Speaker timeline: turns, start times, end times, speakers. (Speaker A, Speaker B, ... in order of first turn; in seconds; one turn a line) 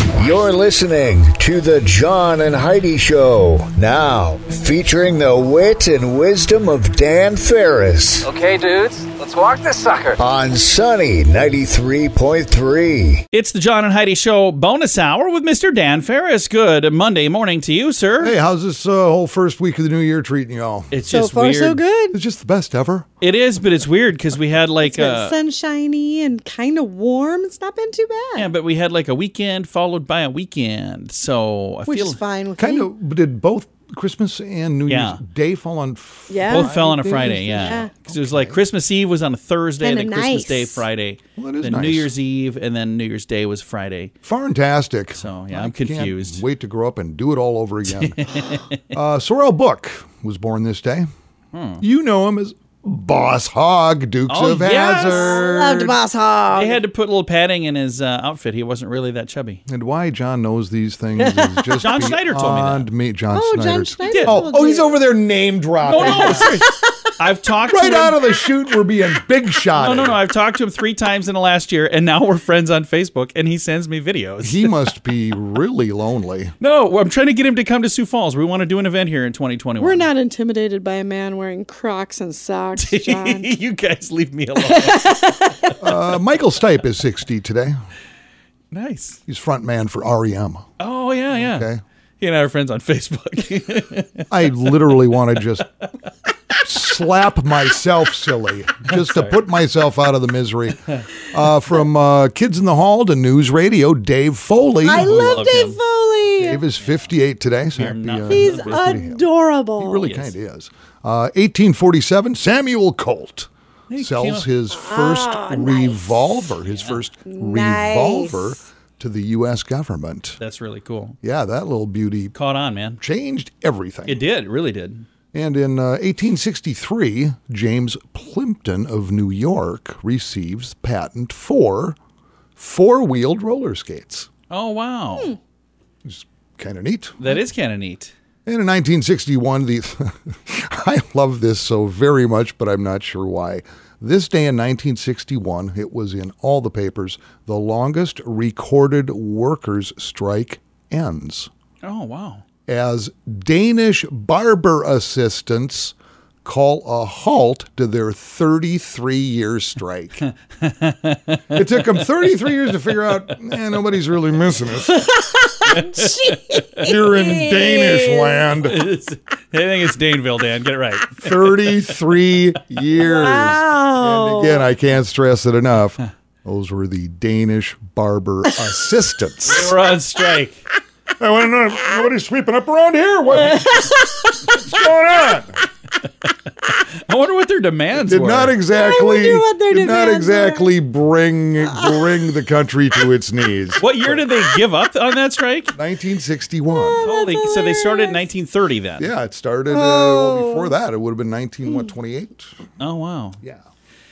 Speaker A: 0.1-8.2
Speaker B: 8.2-10.2
Speaker A: 10.2-13.2
Speaker C: 13.3-18.3
Speaker D: 18.2-21.0
Speaker C: 20.9-21.8
Speaker E: 21.0-22.2
Speaker D: 22.1-23.1
Speaker C: 23.2-25.3
Speaker E: 24.8-28.5
Speaker C: 28.4-32.2
Speaker E: 31.9-32.9
Speaker D: 32.6-38.6
Speaker C: 34.9-35.2
Speaker E: 36.3-36.7
Speaker C: 36.5-44.1
Speaker E: 37.6-37.9
Speaker E: 39.8-40.8
Speaker D: 41.4-42.1
Speaker D: 44.2-51.1
Speaker C: 45.1-46.4
Speaker C: 47.9-48.7
Speaker C: 51.5-51.8
Speaker D: 51.8-56.0
Speaker C: 54.3-55.4
Speaker E: 55.0-56.8
Speaker C: 56.5-59.6
Speaker D: 59.7-66.6
Speaker E: 61.2-62.0
Speaker C: 61.8-62.9
Speaker E: 63.3-65.0
Speaker C: 64.0-64.4
Speaker C: 65.8-68.2
Speaker E: 66.0-67.0
Speaker D: 67.7-70.2
Speaker C: 69.8-74.7
Speaker D: 74.4-76.5
Speaker C: 76.6-80.1
Speaker E: 79.8-83.5
Speaker C: 82.8-85.2
Speaker E: 84.6-85.8
Speaker D: 85.8-87.8
Speaker C: 88.7-89.2
Speaker D: 89.3-90.7
Speaker C: 90.8-91.7
Speaker D: 91.3-91.8
Speaker C: 92.2-94.3
Speaker D: 94.3-95.7
Speaker D: 96.6-105.5
Speaker C: 98.9-99.3
Speaker C: 104.8-105.8
Speaker E: 104.8-106.6
Speaker D: 106.4-109.3
Speaker C: 107.8-108.8
Speaker E: 108.3-110.1
Speaker D: 109.8-120.4
Speaker C: 110.0-110.3
Speaker C: 113.9-114.5
Speaker E: 114.7-116.4
Speaker C: 116.6-117.0
Speaker E: 117.3-118.5
Speaker C: 120.4-121.2
Speaker D: 121.2-122.3
Speaker C: 122.3-123.0
Speaker D: 123.0-124.2
Speaker C: 124.1-125.0
Speaker D: 125.3-132.0
Speaker D: 132.6-134.3
Speaker C: 134.5-135.3
Speaker D: 136.0-137.2
Speaker C: 137.2-138.1
Speaker D: 138.4-151.5
Speaker C: 151.8-152.4
Speaker D: 152.7-160.2
Speaker C: 160.6-161.6
Speaker D: 161.5-165.1
Speaker E: 165.0-168.4
Speaker C: 165.7-166.6
Speaker D: 166.8-168.9
Speaker C: 168.6-171.9
Speaker D: 171.2-179.7
Speaker E: 173.0-174.7
Speaker C: 179.4-180.6
Speaker D: 181.2-185.6
Speaker E: 183.3-184.6
Speaker C: 186.2-188.6
Speaker D: 187.9-194.2
Speaker E: 188.7-190.7
Speaker E: 191.7-192.2
Speaker C: 193.8-195.7
Speaker D: 195.7-197.1
Speaker E: 196.7-198.2
Speaker C: 197.0-199.1
Speaker D: 199.0-202.5
Speaker E: 199.7-200.7
Speaker C: 202.8-203.4